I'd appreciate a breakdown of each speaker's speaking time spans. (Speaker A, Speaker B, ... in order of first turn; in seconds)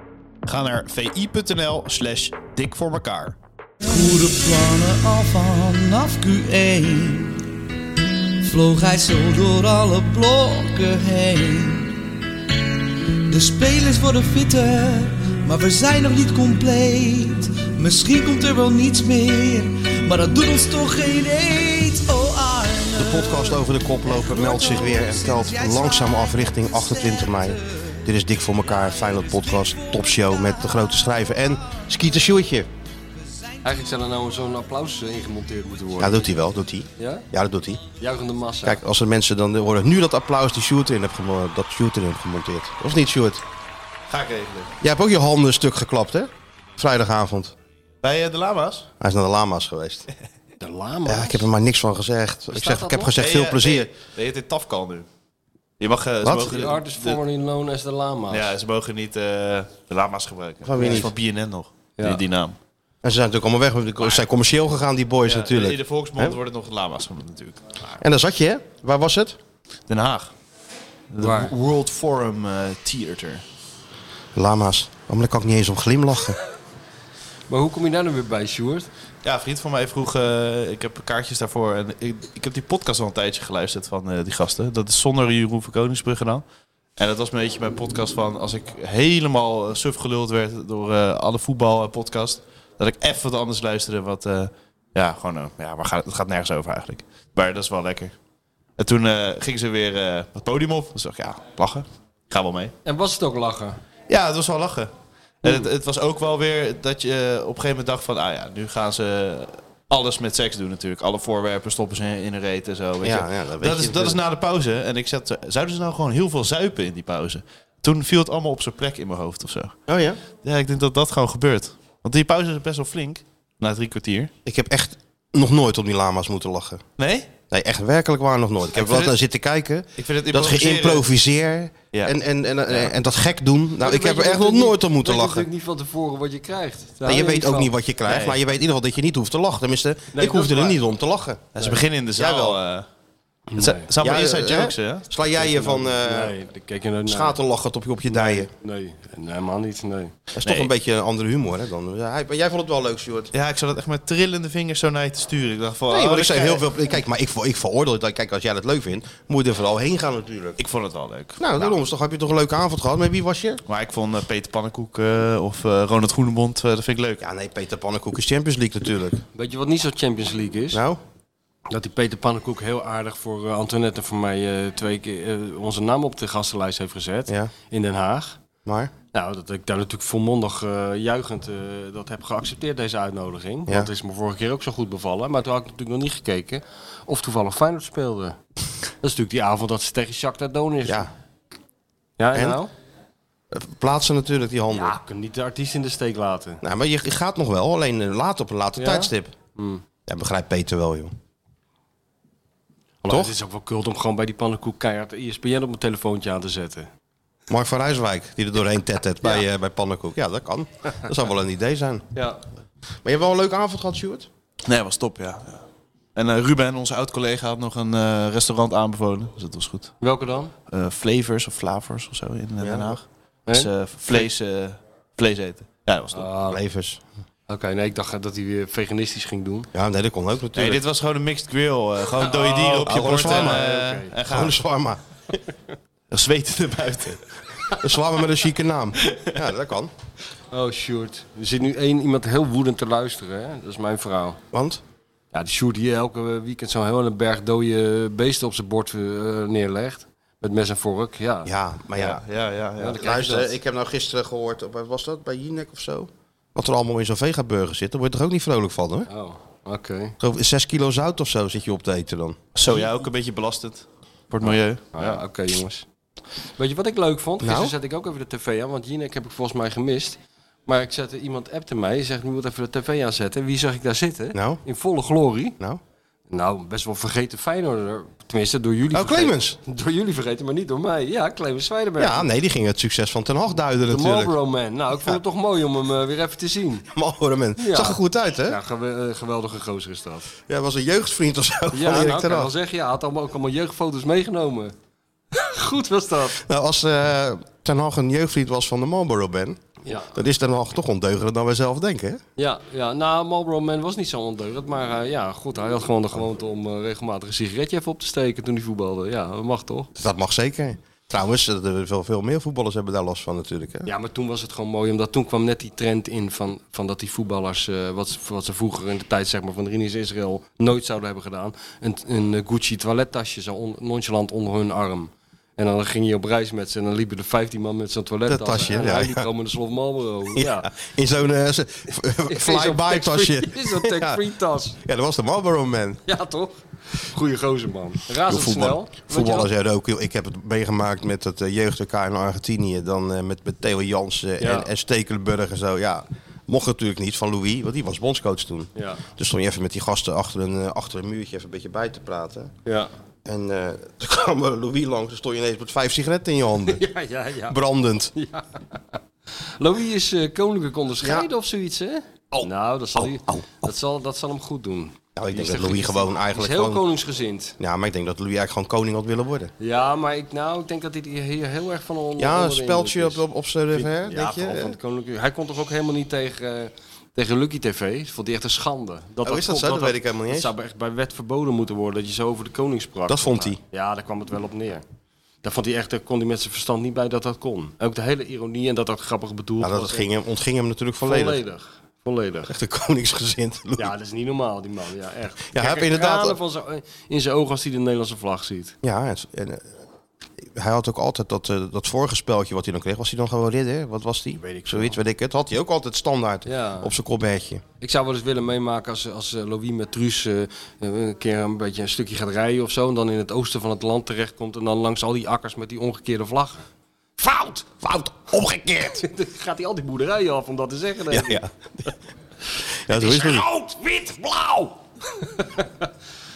Speaker A: 0.5-3.4, 44.1-44.7, 48.0-48.9, 53.2-55.1, 55.8-57.2, 58.3-62.6, 65.2-67.6, 69.9-70.3, 71.1-73.4, 79.2-86.4, 87.0-98.1, 98.8-102.7, 104.1-104.9, 105.4-119.7, 120.4-124.3, 127.0-127.3, 128.7-129.2, 130.0-131.1, 132.7-132.9, 138.1-138.4, 141.5-142.8, 143.6-145.1, 150.4-150.7, 153.3-156.7, 160.6-161.6, 163.7-167.2, 214.7-215.6, 216.1-219.9, 220.7-226.3, 230.5-234.6, 236.1-237.4, 251.9-253.0, 262.6-265.2
Speaker B: 3.8-7.4, 8.4-12.0, 13.3-28.0, 28.7-31.8
Speaker C: 23.0-32.7, 36.0-37.8, 38.6-43.4, 44.8-47.5, 49.0-50.1, 51.0-53.9, 56.2-56.6, 60.6-61.1, 63.0-66.3, 68.0-69.4, 74.3-76.4, 113.0-114.2, 119.9-120.2, 124.4-126.8, 127.5-135.5, 137.0-141.6, 142.2-142.6, 144.0-146.3, 147.1-148.5, 150.3-153.3, 155.9-160.6, 161.4-163.6, 167.2-169.2, 170.7-171.0, 177.3-177.5, 178.7-178.9, 190.8-191.1, 193.5-195.0, 196.6-199.3, 200.1-201.1, 203.1-203.3, 207.5-212.1, 213.0-214.3, 222.6-222.9, 226.5-227.0, 229.7-230.8, 232.8-233.6, 234.3-235.4, 237.8-239.9, 244.5-244.8, 251.4-252.2, 252.9-259.1, 260.2-262.4, 267.4-267.7, 274.3-274.6, 278.9-279.6, 282.0-284.3, 286.9-288.6, 290.5-292.5, 296.3-299.6, 300.1-302.2, 309.9-313.9, 328.3-329.3, 330.3-334.2, 334.8-336.0, 338.2-352.5, 353.2-356.8, 357.5-358.1, 361.0-361.3, 362.4-363.5, 365.1-366.8, 367.6-369.5, 372.2-374.8, 379.2-380.5, 383.1-383.6, 389.6-391.4, 392.5-393.9, 395.5-396.4, 398.8-399.7, 400.4-407.6, 417.8-419.0, 421.1-421.9, 422.8-423.5
Speaker D: 33.6-36.3, 37.0-37.2, 38.0-38.8, 50.6-51.5, 52.5-53.1, 56.4-58.5, 71.2-71.5, 77.5-78.9, 102.8-103.8, 133.8-137.7, 140.1-140.8, 143.5-143.9, 145.4-147.4, 148.1-150.1, 169.3-170.8, 171.7-178.4, 179.1-188.4, 189.0-191.1, 192.2-192.7, 194.7-196.6, 198.8-199.8, 203.0-206.9, 212.1-212.4, 220.0-220.5, 223.5-224.2, 226.1-226.6, 227.5-229.7, 232.2-234.1, 240.5-244.4, 245.3-251.5, 252.8-253.6, 259.1-260.2, 264.9-265.8, 266.6-275.6, 276.3-282.2, 283.9-286.9, 287.6-290.3, 291.7-294.7, 295.3-296.4, 299.9-300.2, 302.4-309.9, 313.9-330.7, 332.3-334.8, 336.1-339.5, 344.4-344.7, 348.8-349.0, 352.6-352.9, 356.7-357.6, 358.1-358.8, 359.6-367.6, 369.6-373.2, 373.7-384.8, 385.4-390.1, 391.0-392.5, 393.8-398.7, 404.4-405.0, 406.4-406.9, 407.8-416.6, 417.2-417.7, 418.8-421.4, 422.9-425.9